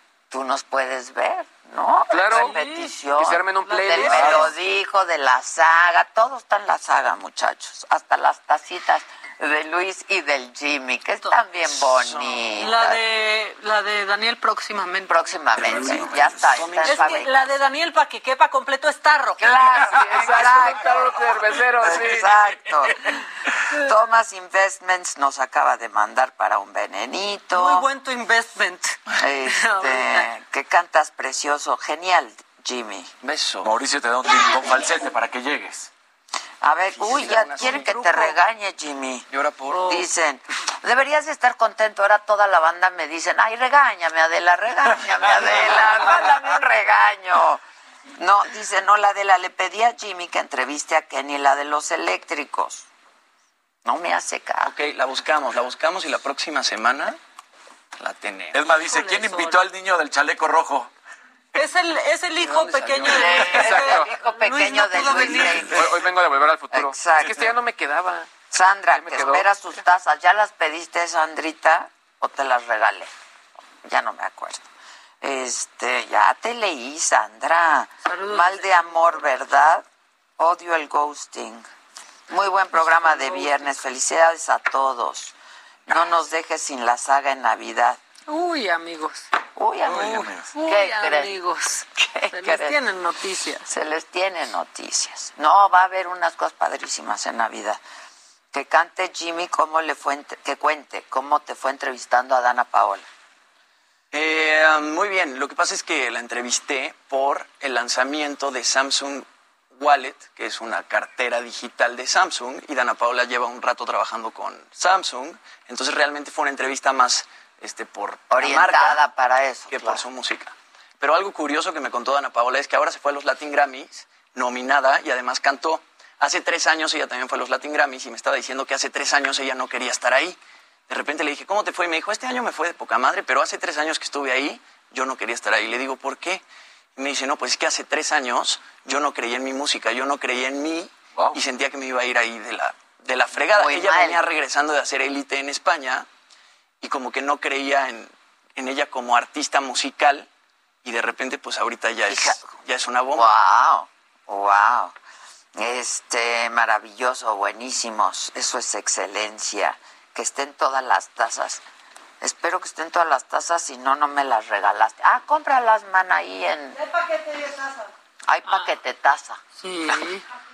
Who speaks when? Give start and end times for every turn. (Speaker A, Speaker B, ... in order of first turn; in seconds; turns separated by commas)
Speaker A: 0.3-13.0, Speaker B: 2.1-2.6, Speaker C: 2.3-3.1, Speaker B: 3.2-4.4, Speaker C: 3.6-4.5, Speaker D: 4.2-4.5, Speaker E: 11.7-12.5, Speaker C: 12.6-15.1, Speaker A: 15.1-17.5, Speaker E: 15.6-17.2, Speaker C: 16.8-20.9, Speaker A: 19.4-23.1, Speaker B: 20.0-22.3, Speaker D: 22.2-22.6, Speaker A: 23.7-27.9, Speaker C: 27.5-30.3, Speaker A: 29.2-33.1, Speaker E: 33.2-33.7, Speaker D: 33.6-35.9, Speaker A: 36.6-39.3, Speaker E: 36.9-38.1, Speaker C: 37.5-38.4, Speaker E: 39.3-40.0, Speaker C: 39.7-40.0, Speaker A: 39.9-47.6, Speaker E: 45.4-46.3, Speaker A: 48.2-52.9, Speaker A: 53.9-54.7, Speaker E: 54.6-57.2, Speaker E: 58.0-58.6, Speaker D: 58.5-60.9, Speaker C: 58.7-59.6, Speaker C: 61.5-65.8, Speaker E: 62.4-63.8, Speaker A: 63.1-66.0, Speaker B: 63.7-64.0, Speaker B: 65.6-68.3, Speaker A: 66.7-67.5, Speaker A: 68.5-73.1, Speaker B: 68.9-69.8, Speaker A: 73.8-74.7, Speaker A: 75.2-79.9, Speaker C: 78.0-78.9, Speaker A: 80.4-81.7, Speaker A: 82.3-85.3, Speaker C: 82.9-83.6, Speaker A: 85.9-88.0, Speaker C: 88.3-89.3, Speaker A: 89.5-91.4, Speaker D: 89.9-90.5, Speaker C: 89.9-93.7, Speaker A: 92.0-92.8, Speaker A: 93.7-97.8, Speaker A: 98.5-103.1, Speaker E: 104.1-119.0, Speaker A: 118.3-120.0, Speaker E: 119.7-130.4, Speaker E: 130.9-136.4, Speaker E: 137.0-146.1, Speaker A: 143.4-144.2, Speaker E: 146.8-150.3, Speaker E: 150.8-153.3, Speaker A: 152.1-152.5, Speaker A: 153.1-154.9, Speaker A: 155.6-161.6, Speaker A: 162.2-166.8, Speaker C: 166.8-167.9, Speaker A: 168.3-169.4, Speaker C: 169.6-170.2